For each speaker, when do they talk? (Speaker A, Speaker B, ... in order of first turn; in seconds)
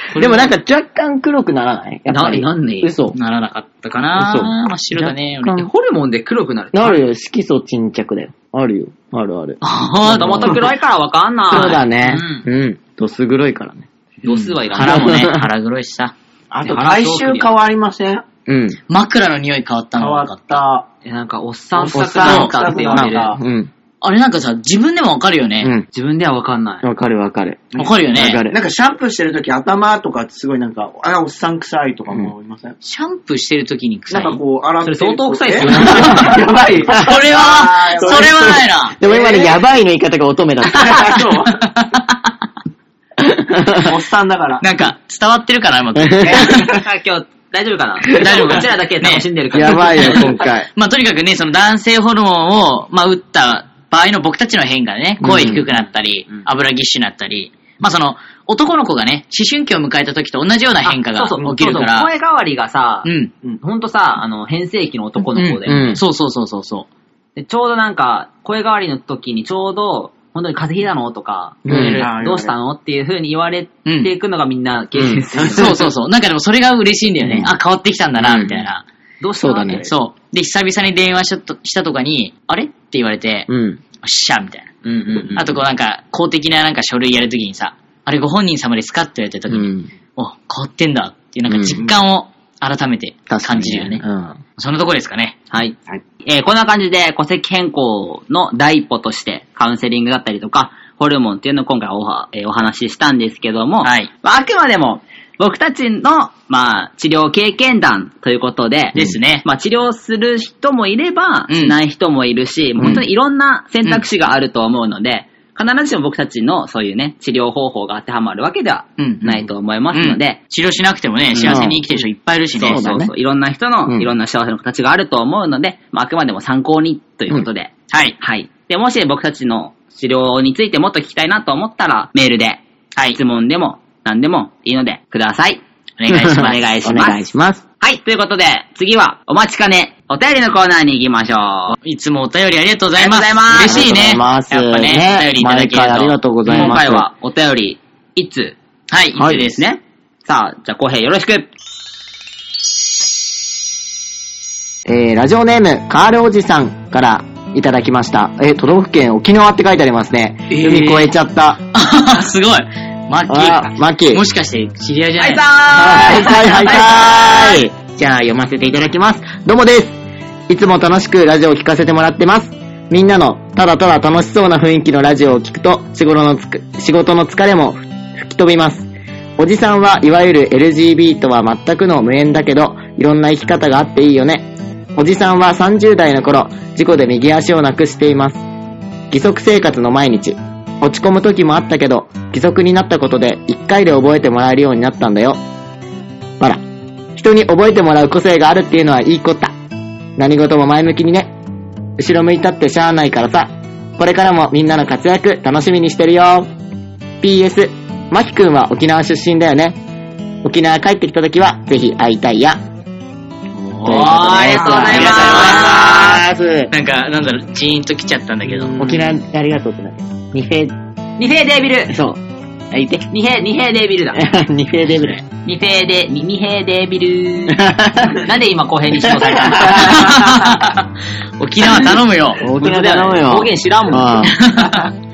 Speaker A: 0.1-0.5, 3.1-5.7, 9.6-10.7, 14.3-16.1, 18.9-20.6, 22.2-22.5, 24.0-25.7, 27.8-28.4, 32.8-34.4, 36.9-39.0, 44.6-46.8, 48.1-62.1, 63.0-63.3, 65.9-66.9, 71.7-72.1, 73.9-74.1, 75.5-78.8, 79.9-83.5, 84.0-84.7, 85.3-94.0, 94.6-95.4, 103.8-104.1, 108.9-109.5, 111.5-111.8, 119.0-123.0, 127.9-128.2, 136.0-136.9, 141.8-146.8, 148.9-149.7, 160.5-161.1, 161.7-165.9, 213.7-218.8, 224.9-225.2, 229.7-230.8, 231.4-232.4, 234.3-234.9
Speaker B: 0.1-3.2, 4.2-5.7, 6.7-10.7, 11.5-13.9, 14.8-15.5, 18.5-18.8, 21.9-23.7, 25.6-25.9, 26.8-28.6, 35.7-36.4, 38.1-41.2, 43.2-43.9, 46.0-46.4, 49.5-50.7, 55.2-55.7, 65.4-66.0, 71.7-72.0, 75.0-75.2, 77.2-77.5, 78.2-78.7, 79.4-79.9, 83.5-83.8, 89.5-89.9, 91.5-91.8, 93.3-94.4, 121.4-121.8, 122.6-123.1, 136.1-137.6, 143.7-147.1, 149.2-149.4, 154.8-161.6, 163.3-164.2, 165.7-188.4, 189.1-195.4, 197.2-199.5, 200.2-201.3, 202.0-206.5, 207.2-209.8, 210.4-212.6, 213.8-216.7, 218.8-220.7, 221.9-223.1, 224.1-225.2, 227.5-228.2, 229.6-229.9, 232.4-234.4
Speaker C: 2.1-2.9, 5.6-7.0, 10.1-12.5, 14.2-15.2, 16.6-17.5, 21.1-23.4, 25.9-26.9, 34.8-36.4, 46.2-50.4, 60.8-66.0, 67.4-75.8, 79.2-79.9, 84.8-85.5, 95.5-120.4, 121.3-121.8, 122.5-132.6, 133.1-135.6, 136.3-141.8, 143.0-143.9, 146.5-148.6, 149.6-151.5, 165.2-167.7, 213.9-216.0, 221.2-222.0, 223.1-224.2, 225.4-230.3, 232.5-234.3
Speaker D: 16.5-18.2, 20.0-20.9, 21.8-23.4, 28.5-32.8, 34.1-39.6, 40.7-41.7, 43.7-44.7, 72.0-72.5, 75.4-75.7, 218.6-219.0